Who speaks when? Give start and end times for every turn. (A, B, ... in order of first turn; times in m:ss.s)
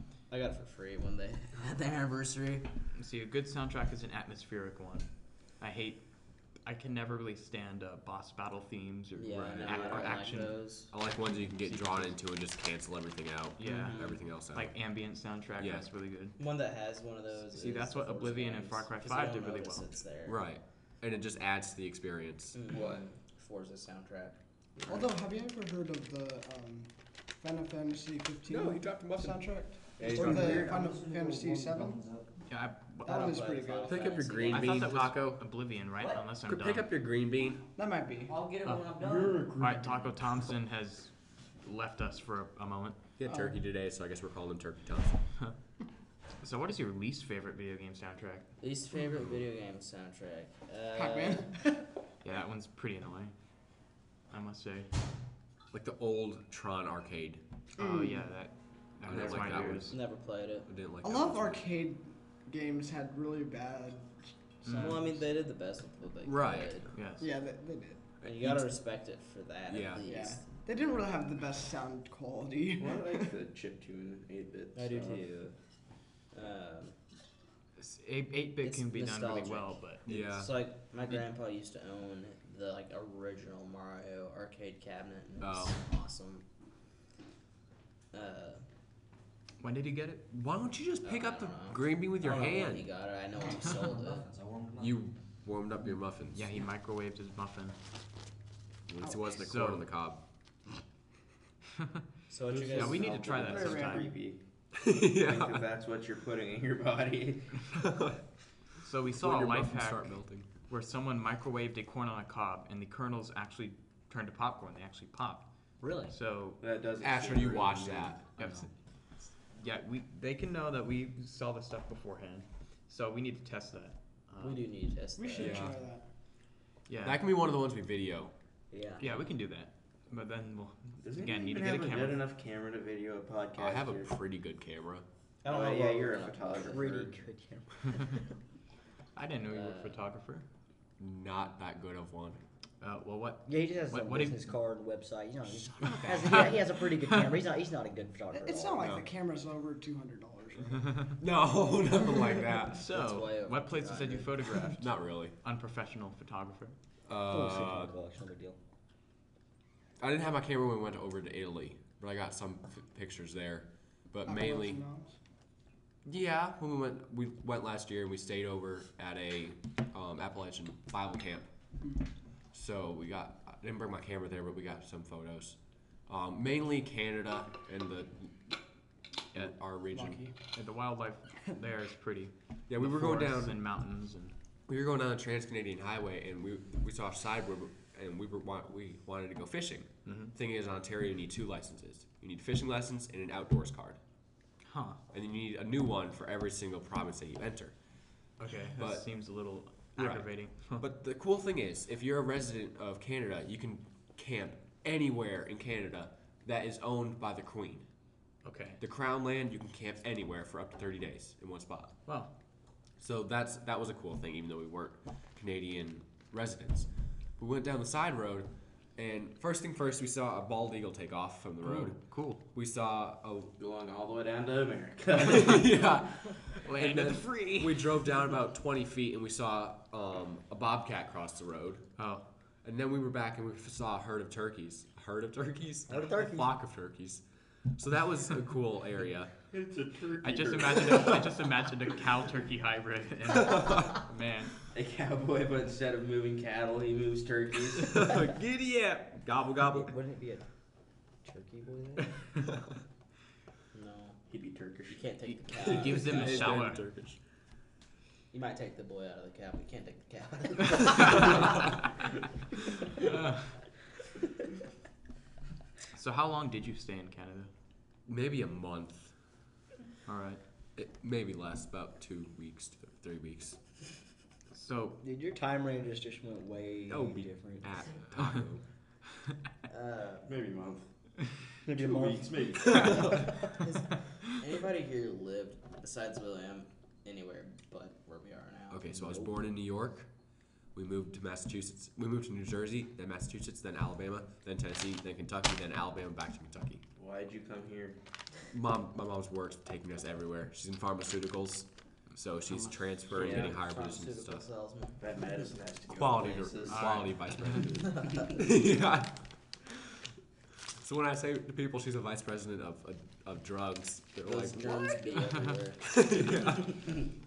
0:00.3-0:02.7 A
0:02.9-0:10.6 B
0:09.2-0:10.9 A
0:09.5-0:10.2 C
0:10.9-0:14.8 D
0:11.6-0:12.2 B
0:13.6-0:16.4 B
0:13.6-0:14.2 A
0:15.6-0:15.9 D
0:16.4-0:20.4 A
0:17.5-0:19.9 B
0:20.3-0:22.7 D
0:22.5-0:25.0 A
0:22.7-0:23.1 C
0:24.9-0:32.1 E
0:28.5-0:30.7 D
0:30.1-0:32.3 F
0:32.5-0:33.4 B
0:33.0-0:34.2 E
0:33.1-0:34.9 A
0:33.9-0:35.5 D
0:34.5-0:36.9 B
0:36.4-0:37.6 D
0:37.8-0:38.4 E
0:38.3-0:39.4 A
0:38.6-0:38.9 B
0:39.0-0:39.9 C
0:39.5-0:43.0 B
0:43.2-0:45.2 D
0:43.3-0:43.6 E
0:46.4-0:48.5 B
0:48.6-0:51.5 A
0:51.0-0:51.9 E
0:52.2-0:53.4 B
0:54.3-0:54.9 B
0:55.7-0:57.4 D
0:57.8-1:00.0 B
0:57.8-0:58.3 E
0:59.0-1:00.1 D
0:59.9-1:00.7 A
1:00.7-1:01.6 D
1:01.0-1:05.1 E
1:04.6-1:05.0 B
1:04.7-1:06.9 A
1:06.2-1:06.9 D
1:06.9-1:07.3 B
1:07.2-1:08.0 E
1:08.2-1:10.4 A
1:09.7-1:10.0 D
1:10.0-1:13.3 E
1:12.8-1:15.5 C
1:14.8-1:15.5 A
1:16.3-1:17.0 A
1:17.8-1:20.1 B
1:18.6-1:26.4 A
1:20.1-1:20.5 D
1:25.4-1:25.8 D
1:28.1-1:28.6 A
1:29.6-1:30.2 B
1:30.3-1:32.9 D
1:31.0-1:34.3 A
1:33.8-1:34.9 F
1:34.8-1:36.6 D
1:36.3-1:37.8 B
1:38.9-1:40.2 D
1:39.0-1:39.8 B
1:42.3-1:43.9 A
1:42.4-1:47.5 C
1:42.8-1:44.1 B
1:43.5-1:44.1 E
1:44.8-1:45.6 D
1:47.8-1:48.2 D
1:48.8-1:55.5 B
1:49.2-1:50.5 D
1:55.8-1:56.2 F
1:56.1-1:56.6 B
1:56.6-1:58.2 C
1:57.0-1:58.2 D
1:58.4-2:04.6 B
1:58.4-1:58.7 F
2:04.4-2:05.8 A
2:05.2-2:06.1 E
2:05.4-2:05.7 D
2:06.9-2:07.2 B
2:07.0-2:08.3 D
2:08.7-2:09.0 F
2:09.0-2:12.2 B
2:11.0-2:14.1 C
2:13.6-2:15.0 D
2:15.4-2:16.8 A
2:15.4-2:17.1 C
2:16.3-2:18.2 F
2:19.2-2:20.5 B
2:19.5-2:20.0 A
2:21.0-2:22.4 D
2:22.8-2:24.5 B
2:23.5-2:29.0 F
2:25.8-2:27.4 B
2:28.4-2:31.2 E
2:28.8-2:29.1 D
2:31.2-2:32.8 D
2:32.7-2:36.8 B
2:32.9-2:34.3 A
2:34.8-2:35.4 D
2:37.1-2:37.9 D
2:37.2-2:38.6 F
2:40.0-2:44.8 D
2:44.2-2:45.2 E
2:46.0-2:51.5 D
2:52.5-2:58.4 D
2:59.3-3:00.2 D
2:59.9-3:00.4 E
3:00.5-3:04.3 B
3:02.7-3:03.6 D
3:04.7-3:14.0 D
3:10.0-3:10.3 B
3:14.6-3:15.0 B
3:15.1-3:17.8 D
3:18.4-3:20.9 B
3:18.8-3:19.1 D
3:20.0-3:27.9 D
3:28.4-3:28.8 B
3:28.8-3:32.0 D
3:32.1-3:32.3 B
3:33.0-3:43.5 D
3:41.6-3:42.4 B
3:43.6-3:45.8 C
3:45.3-3:51.9 D
3:46.6-3:47.9 B
3:52.0-3:52.2 B
3:52.6-3:59.3 D
3:55.9-3:56.5 F
3:59.5-4:01.2 C
4:00.2-4:04.5 B
4:04.7-4:08.0 C
4:07.9-4:09.9 D
4:09.7-4:10.5 F
4:11.2-4:12.1 F
4:13.7-4:14.2 A
4:14.3-4:16.3 C
4:14.9-4:16.6 A
4:15.3-4:16.8 B
4:16.0-4:17.2 D
4:18.3-4:21.8 A
4:23.0-4:23.6 B
4:25.9-4:27.5 B
4:28.1-4:29.2 D
4:30.1-4:30.4 B
4:30.8-4:33.6 D
4:34.5-4:35.0 B
4:35.0-4:37.7 F
4:36.9-4:38.6 D
4:39.7-4:40.3 A
4:40.2-4:40.9 C
4:41.6-4:43.4 C
4:41.7-4:42.3 F
4:43.4-4:49.1 A
4:48.7-4:50.1 D
4:50.7-4:56.8 D
4:57.0-4:58.0 C
4:58.5-5:04.4 D
5:03.1-5:05.0 A
5:03.1-5:03.5 C
5:05.0-5:07.1 C
5:06.0-5:09.8 D
5:06.7-5:07.7 B
5:07.9-5:08.3 A
5:10.8-5:15.0 D
5:14.3-5:16.8 A
5:15.9-5:16.7 D